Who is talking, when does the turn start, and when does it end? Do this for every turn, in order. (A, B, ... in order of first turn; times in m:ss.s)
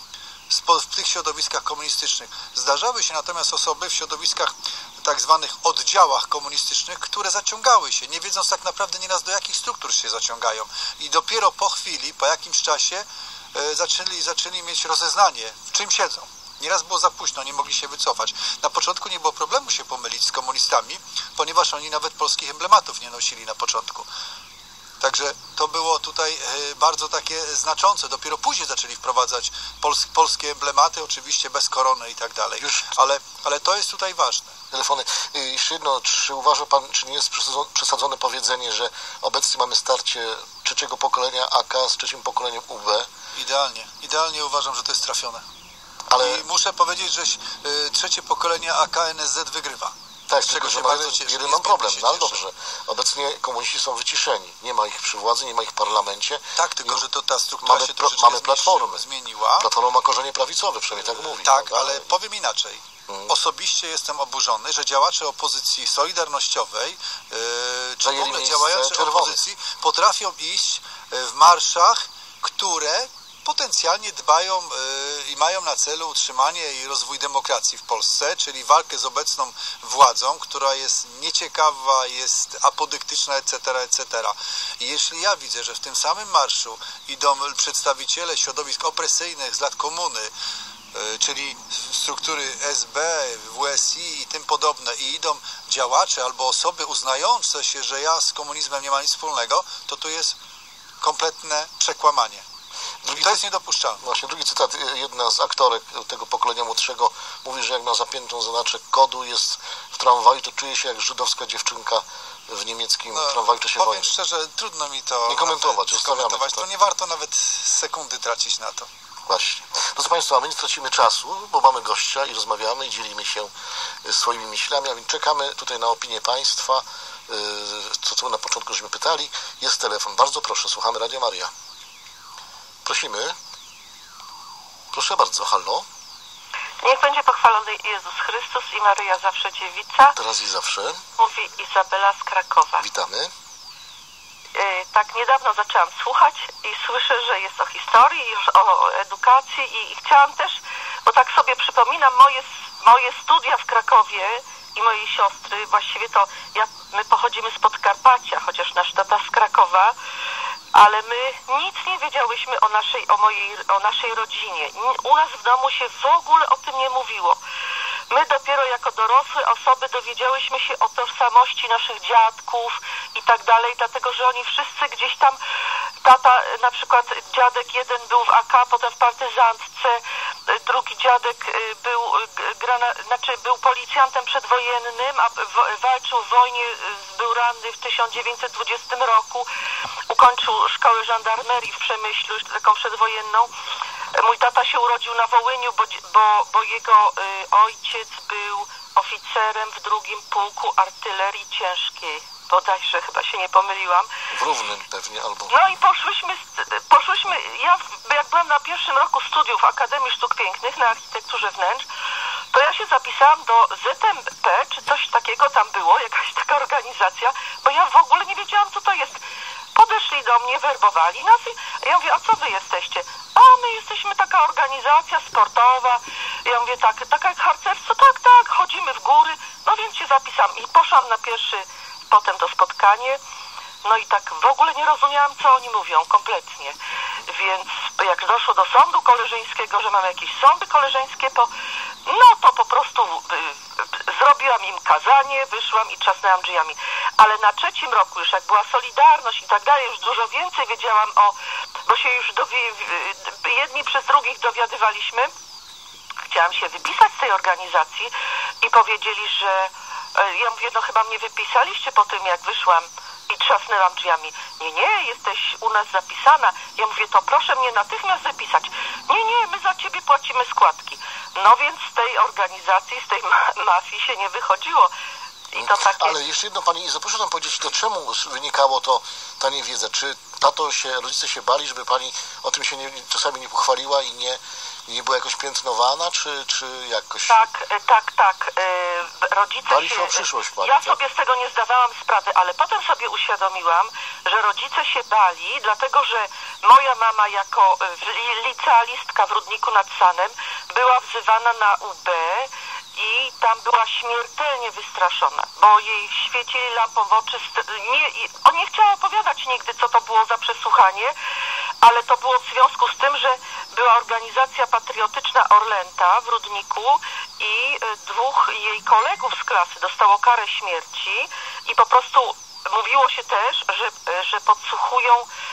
0:00.5-0:24.1 A
0:25.0-0:34.6 A
0:32.6-0:32.9 B
0:34.7-0:43.1 B
0:43.4-0:45.4 A
0:46.1-0:46.4 B
0:46.2-0:52.4 A
0:50.3-0:57.0 B
0:56.6-0:59.7 A
0:57.6-0:59.0 B
0:59.6-1:02.0 B
1:00.9-1:30.3 A
1:03.0-1:03.4 B
1:08.0-1:09.5 B
1:30.9-1:40.4 A
1:41.0-1:42.4 A
1:43.0-1:43.4 B
1:43.1-1:44.0 A
1:44.0-1:54.1 B
1:53.1-1:58.9 A
1:55.2-1:56.7 B
1:59.3-2:03.5 B
2:04.0-2:11.5 B
2:12.8-2:13.4 B
2:14.9-2:15.8 B
2:16.8-2:20.2 C
2:20.2-2:21.0 B
2:21.2-2:22.8 C
2:22.8-2:23.3 B
2:24.6-2:39.9 C
2:40.7-2:47.4 C
2:48.1-2:55.4 C
2:56.0-3:09.4 C
3:10.1-3:13.5 C
3:14.2-3:24.1 C
3:24.3-3:25.6 B
3:25.5-3:31.8 C
3:32.5-3:39.2 C
3:39.7-3:53.2 C
3:53.8-3:56.8 C
3:57.3-4:01.5 C
4:02.1-4:03.6 C
4:04.1-4:11.3 C
4:11.8-4:15.3 C
4:16.3-4:34.9 C
4:35.5-4:36.2 C
4:35.6-4:47.5 B
4:47.3-5:11.1 C
4:49.7-4:51.0 B
5:11.8-5:25.3 C